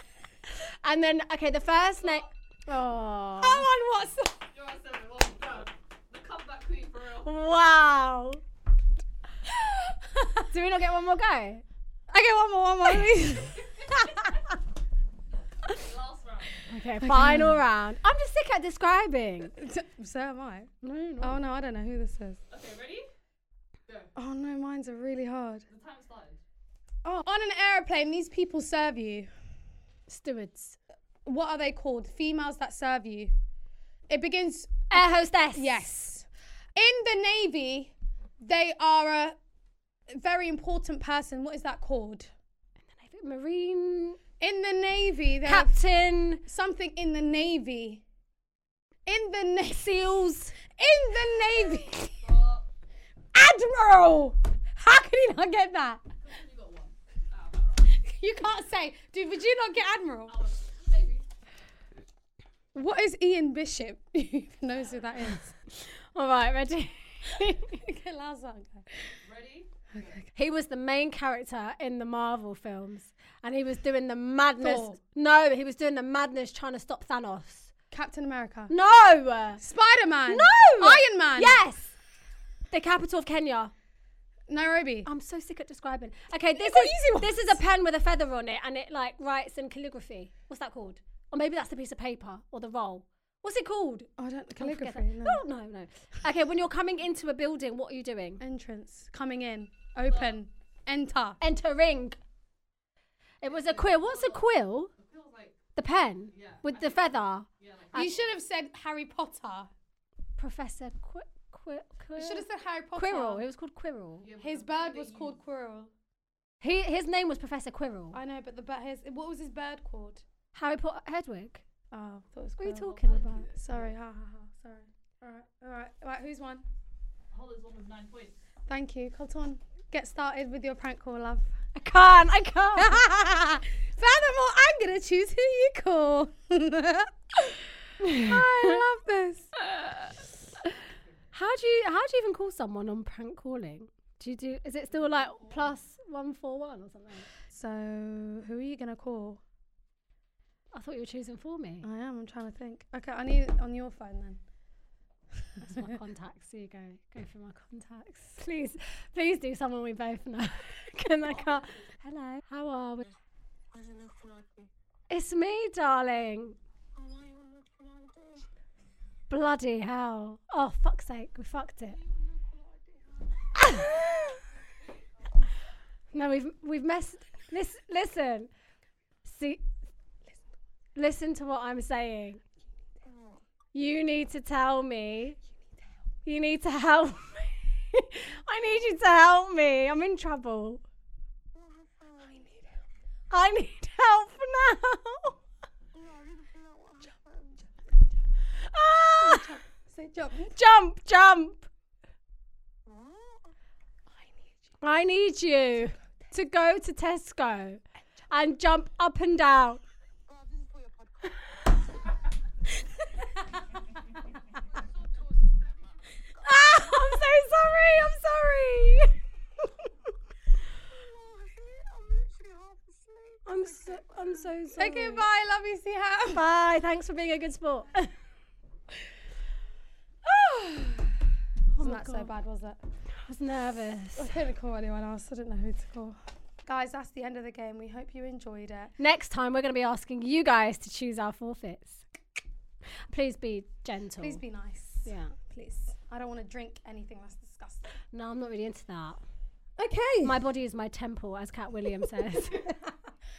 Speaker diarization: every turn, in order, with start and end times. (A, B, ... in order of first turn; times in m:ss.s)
0:00.8-0:03.6 A
0:02.0-0:02.3 B
0:03.4-0:04.4 C
0:04.5-0:07.3 B
0:07.2-0:08.4 A
0:09.6-0:10.4 C
0:10.5-0:11.6 A
0:12.1-0:14.2 C
0:13.5-0:14.4 B
0:15.7-0:16.6 B
0:16.7-0:19.5 A
0:17.0-0:17.6 C
0:19.5-0:22.4 C
0:20.8-0:21.4 A
0:22.5-0:23.1 B
0:24.2-0:25.6 C
0:25.7-0:26.4 B
0:27.0-0:29.3 C
0:30.1-0:30.8 A
0:31.2-0:33.3 C
0:34.1-0:39.4 C
0:34.9-0:35.9 A
0:40.1-0:42.3 C
0:42.9-0:44.2 A
0:44.4-0:45.8 C
0:45.4-0:46.4 A
0:46.4-0:48.0 C
0:49.0-0:52.2 C
0:49.7-0:50.6 A
0:52.2-0:52.6 B
0:53.3-0:56.0 C
0:56.2-0:58.0 B
0:57.9-1:00.4 C
1:00.3-1:01.2 B
1:02.7-1:05.5 C
1:05.7-1:07.8 A
1:07.6-1:08.9 C
1:09.2-1:10.2 B
1:10.3-1:17.7 A
1:14.6-1:15.0 C
1:17.9-1:18.7 C
1:18.7-1:19.6 A
1:19.6-1:21.6 C
1:20.3-1:21.9 A
1:22.7-1:23.7 A
1:24.5-1:25.1 C
1:25.0-1:38.4 A
1:26.5-1:27.6 C
1:34.2-1:35.4 C
1:38.4-1:41.4 C
1:40.1-1:40.4 B
1:41.4-1:42.2 A
1:43.4-1:44.9 A
1:43.4-1:45.6 B
1:45.8-1:48.1 A
1:46.3-1:48.4 B
1:47.9-1:49.7 C
1:50.4-1:54.3 A
1:52.2-1:53.4 C
1:54.2-1:55.4 B
1:54.4-1:55.9 C
1:56.6-1:58.2 A
1:58.1-2:00.2 C
2:00.5-2:01.6 A
2:01.9-2:06.6 C
2:02.6-2:03.5 A
2:03.0-2:03.9 B
2:07.3-2:08.4 B
2:08.7-2:11.5 C
2:11.8-2:13.0 A
2:12.8-2:19.5 C
2:18.0-2:18.8 A
2:21.3-2:27.3 A
2:27.5-2:29.4 C
2:30.7-2:31.9 A
2:31.8-2:34.4 C
2:35.6-2:43.1 A
2:41.4-2:41.8 B
2:45.1-2:46.6 A
2:49.3-2:52.0 A
2:53.6-2:54.3 A
2:56.1-2:58.5 A
2:59.2-2:59.6 A
3:01.0-3:02.4 A
3:03.7-3:05.4 A
3:06.2-3:10.8 A
3:12.0-3:12.7 C
3:13.3-3:15.4 A
3:17.0-3:17.4 C
3:18.6-3:19.6 A
3:19.2-3:20.6 C
3:20.5-3:21.7 A
3:24.8-3:29.8 A
3:36.4-3:39.2 A
3:41.5-3:42.2 C
3:43.4-3:45.2 A
3:44.7-3:46.4 C
3:46.3-3:48.1 A
3:50.2-3:51.1 C
3:51.7-3:52.3 A
3:51.8-3:52.8 C
3:53.2-3:54.3 A
3:54.2-3:58.9 C
3:59.0-4:02.0 A
4:03.1-4:04.4 A
4:04.2-4:07.9 C
4:05.0-4:05.3 A
4:08.1-4:09.2 A
4:09.8-4:10.4 C
4:10.2-4:12.7 A
4:12.6-4:12.9 C